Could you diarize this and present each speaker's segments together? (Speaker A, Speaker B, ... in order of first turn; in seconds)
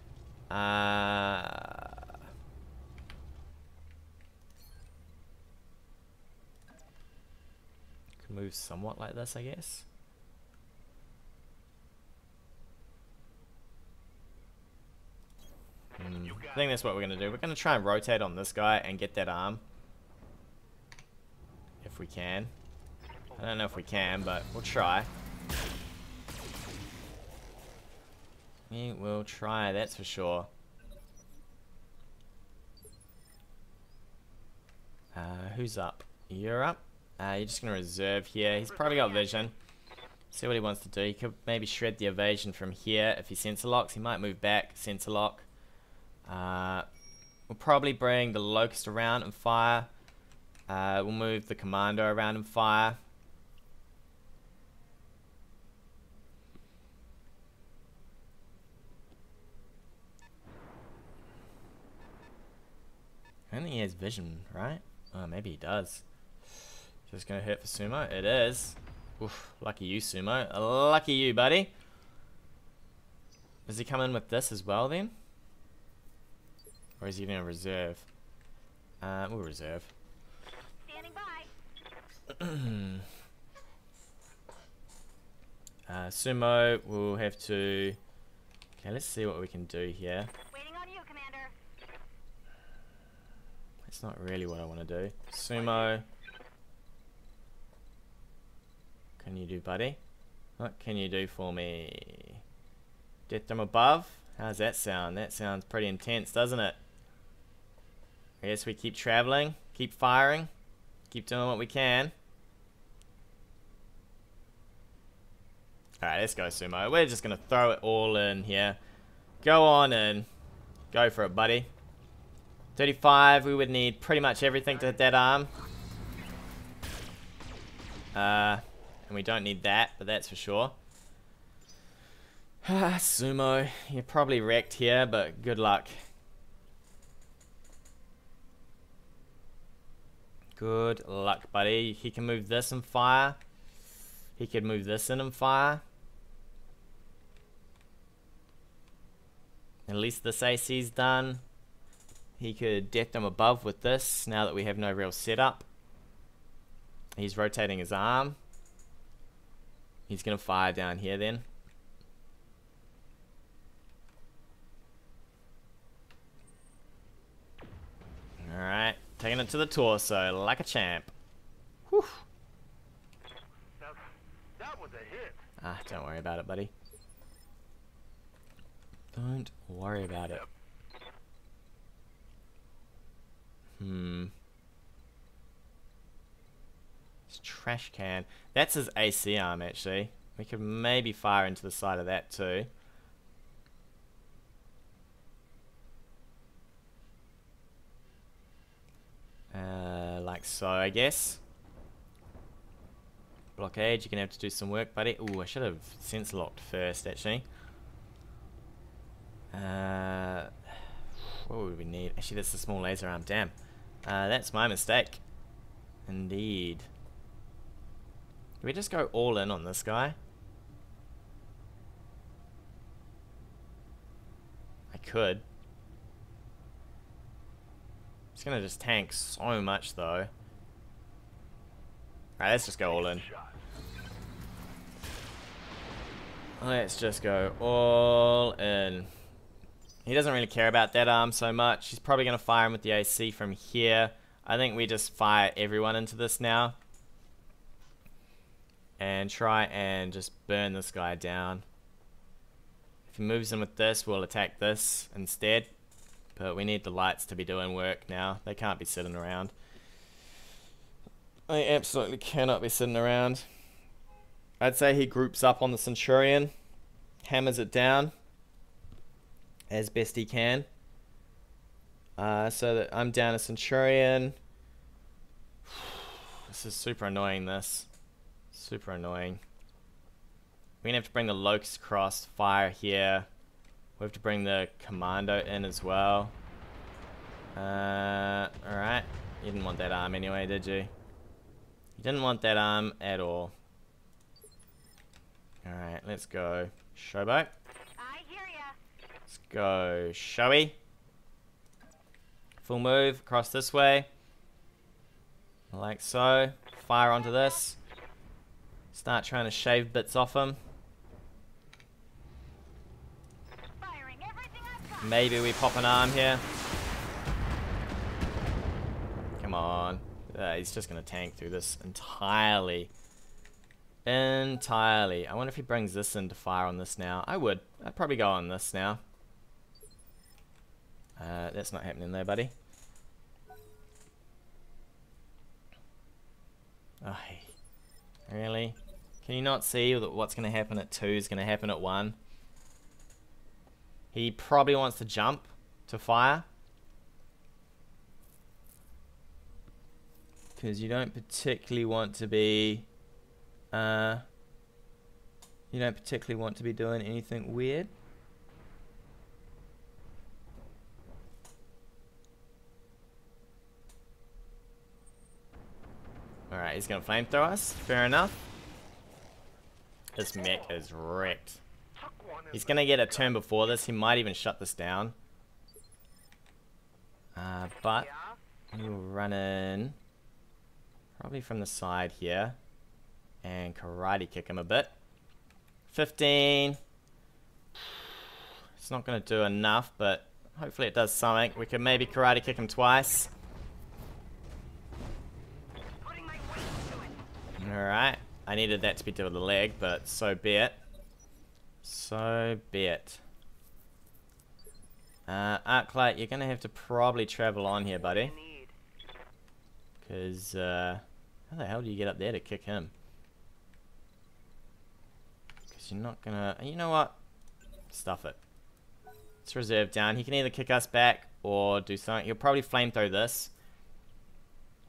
Speaker A: 0.5-2.1, 8.2-9.8, 16.0-19.6, 21.8-22.5, 23.4-25.1, 28.7-30.5, 35.1-39.5, 40.3-45.5, 46.2-46.9, 47.5-49.9, 50.7-53.0, 63.5-66.0, 67.1-71.7, 73.7-75.1, 77.0-78.0, 79.0-79.9, 82.3-83.0, 85.9-88.0, 88.8-90.3, 93.8-96.0, 99.2-100.0, 100.6-102.4, 103.3-106.8, 108.4-110.5, 111.1-112.1, 116.0-118.8, 119.4-120.3, 120.9-121.7, 122.8-125.5, 128.1-130.8, 132.6-136.1, 140.6-143.4, 144.4-145.8, 149.9-151.4, 152.4-155.7, 157.2-158.4, 160.1-161.4, 168.4-171.1, 171.9-172.2, 175.6-176.7, 179.1-180.4, 183.8-184.3, 187.3-192.7, 199.5-201.4, 203.6-207.4, 209.5-210.5, 211.3-215.2, 216.1-216.9, 218.6-220.2, 224.9-225.4, 228.3-230.3, 232.4-233.2, 236.6-239.1, 240.1-246.8, 249.0-251.6, 253.1-255.7, 256.4-259.5, 261.5-263.4, 264.6-266.5, 267.2-268.1, 269.7-270.7, 272.2-274.4, 275.7-277.9, 278.5-279.4, 280.8-283.3, 284.0-286.3, 287.5-290.9, 292.0-293.5, 295.6-297.5, 299.3-300.8, 302.6-304.1, 305.7-307.8, 308.9-310.6, 315.0-316.4, 319.4-322.9, 324.0-329.0, 331.2-332.5, 337.0-337.5, 338.3-342.2, 344.1-346.4, 350.6-352.9, 353.7-354.2, 355.7-357.9, 366.5-368.4, 370.1-371.6, 372.5-375.1, 377.4-378.1, 378.7-380.0, 381.2-382.6, 383.4-384.9, 385.9-386.8, 388.8-393.3, 397.6-400.8, 401.8-403.2, 405.3-408.3, 410.0-412.9, 415.7-417.2, 417.9-418.4, 419.4-423.5
Speaker B: 16.2-16.9, 23.3-24.3, 174.6-175.4, 232.8-233.6, 370.4-370.8, 371.9-373.3
Speaker C: 38.6-39.5, 80.8-81.5, 90.5-91.5, 95.6-95.9, 298.0-298.8, 307.2-307.6, 313.8-315.3, 378.0-378.4, 391.6-392.4, 396.0-397.2, 407.8-408.7